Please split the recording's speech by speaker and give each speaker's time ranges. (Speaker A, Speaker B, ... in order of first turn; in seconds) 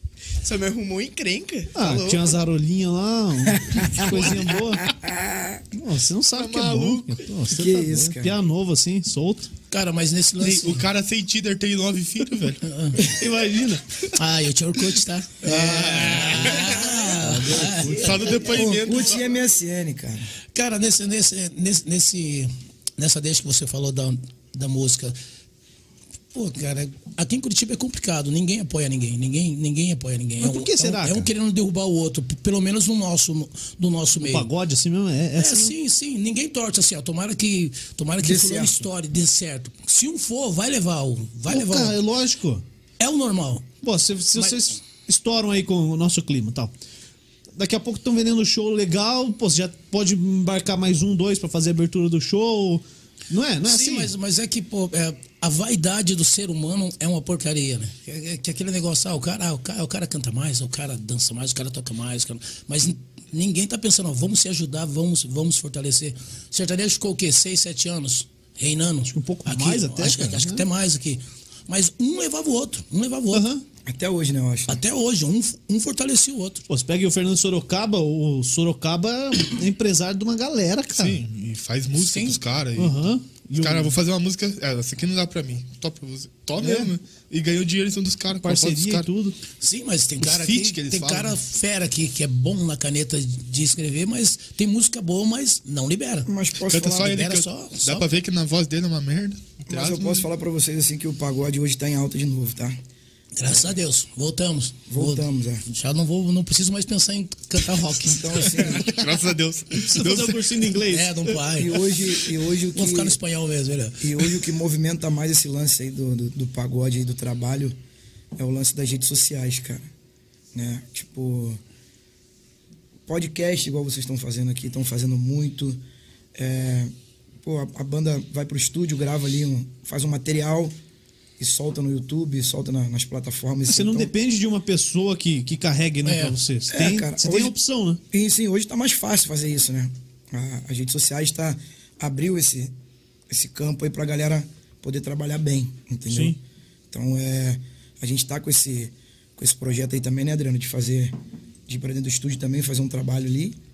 Speaker A: 0.4-2.4
Speaker B: 1.7-4.9, 5.7-9.5, 13.0-13.8, 15.5-18.2, 30.4-31.3, 34.2-35.7, 41.5-42.6, 43.8-46.7, 47.5-54.1, 69.1-70.6, 73.3-73.6, 76.7-81.2, 82.8-84.0, 86.6-86.9, 88.4-89.4, 109.8-111.4, 133.7-138.0, 146.1-146.4
Speaker C: 3.7-4.3, 4.8-5.6, 7.5-8.3, 18.4-20.2, 38.2-38.8, 73.8-74.8, 96.3-97.2, 99.7-102.8, 104.9-105.6, 108.0-108.9, 111.6-113.2, 114.0-117.7, 118.3-119.8, 120.5-121.6, 123.1-125.8, 126.3-126.9, 127.4-130.7, 131.4-134.1, 136.7-137.5, 138.1-142.7, 143.3-146.4, 146.9-151.1, 151.7-153.6
Speaker D: 6.3-7.2, 10.4-12.6, 15.4-16.8, 17.9-19.2, 80.9-83.1, 83.6-89.1, 90.2-91.4, 96.6-100.3, 108.6-110.7
Speaker E: 9.7-10.8, 12.6-13.0, 14.1-18.3, 20.5-25.1, 26.3-34.5, 35.4-42.0, 43.0-43.7, 44.3-44.6, 53.6-73.5, 74.7-76.6, 82.0-82.4, 89.6-96.3, 97.0-98.1, 103.3-108.8, 110.8-112.0, 112.7-114.4, 136.0-136.4